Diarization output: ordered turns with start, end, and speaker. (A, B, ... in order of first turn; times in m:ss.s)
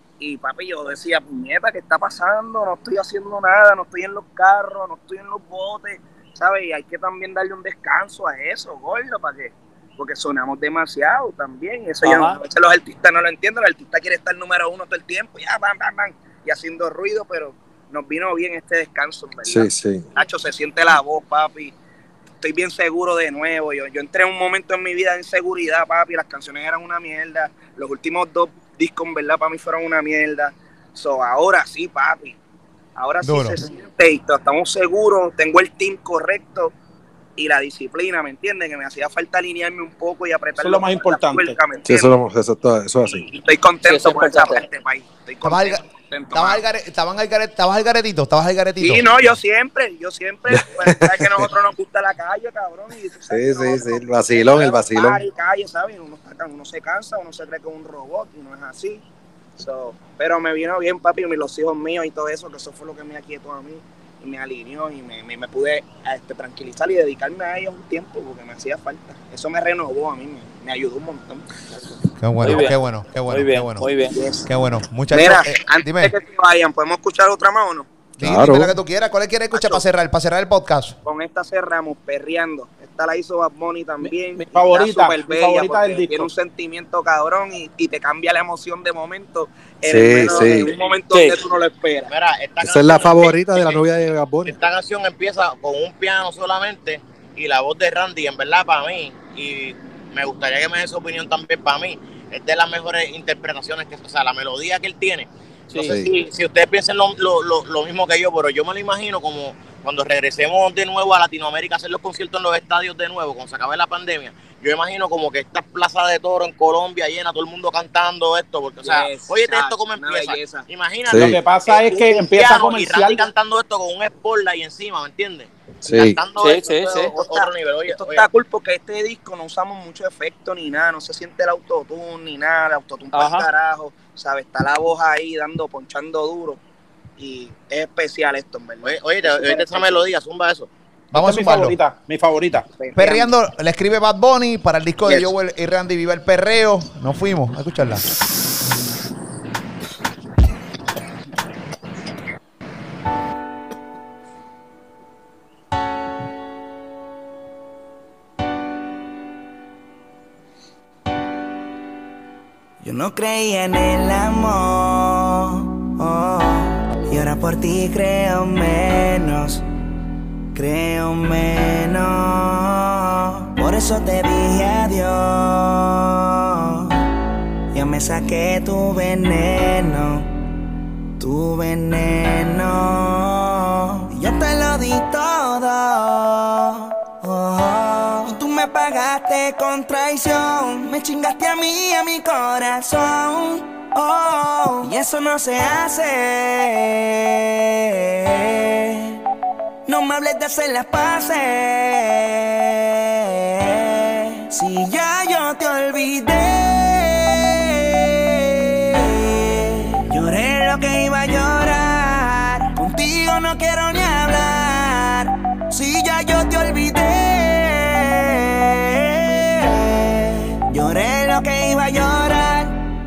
0:00.2-0:21.7 A
0:12.0-0:12.4 B
0:19.5-0:20.1 C
0:22.4-0:32.4 A
0:33.0-0:36.7 A
0:33.2-0:33.6 D
0:37.4-0:42.2 A
0:40.6-0:41.6 E
0:41.9-0:43.3 C
0:43.1-0:46.6 A
0:43.8-0:44.6 B
0:45.4-0:45.8 D
0:46.3-0:49.4 D
0:48.8-0:59.0 A
0:50.5-0:51.5 C
0:53.3-0:55.2 C
0:59.6-1:11.5 A
1:12.2-1:13.9 D
1:12.4-1:14.2 B
1:14.1-1:14.5 A
1:14.5-1:16.1 D
1:15.1-1:17.9 A
1:18.2-1:21.0 D
1:18.2-1:18.8 C
1:19.5-1:19.8 A
1:21.0-1:32.1 A
1:24.0-1:26.3 E
1:29.8-1:30.7 C
1:31.1-1:31.4 B
1:32.1-1:33.8 F
1:32.6-1:34.6 C
1:34.4-2:08.3 F
1:45.7-1:46.0 E
1:58.8-2:00.6 A
2:01.1-2:01.4 C
2:01.1-2:03.3 E
2:05.8-2:06.2 C
2:06.4-2:07.1 B
2:07.0-2:16.6 A
2:13.1-2:13.4 B
2:17.2-2:20.1 A
2:18.8-2:20.7 F
2:21.1-2:21.8 D
2:21.1-2:22.6 E
2:22.7-2:23.3 A
2:22.9-2:28.0 D
2:42.8-2:49.6 G
2:50.5-2:57.0 G
2:57.7-3:00.3 G
3:01.2-3:19.2 G
3:19.9-3:42.8 G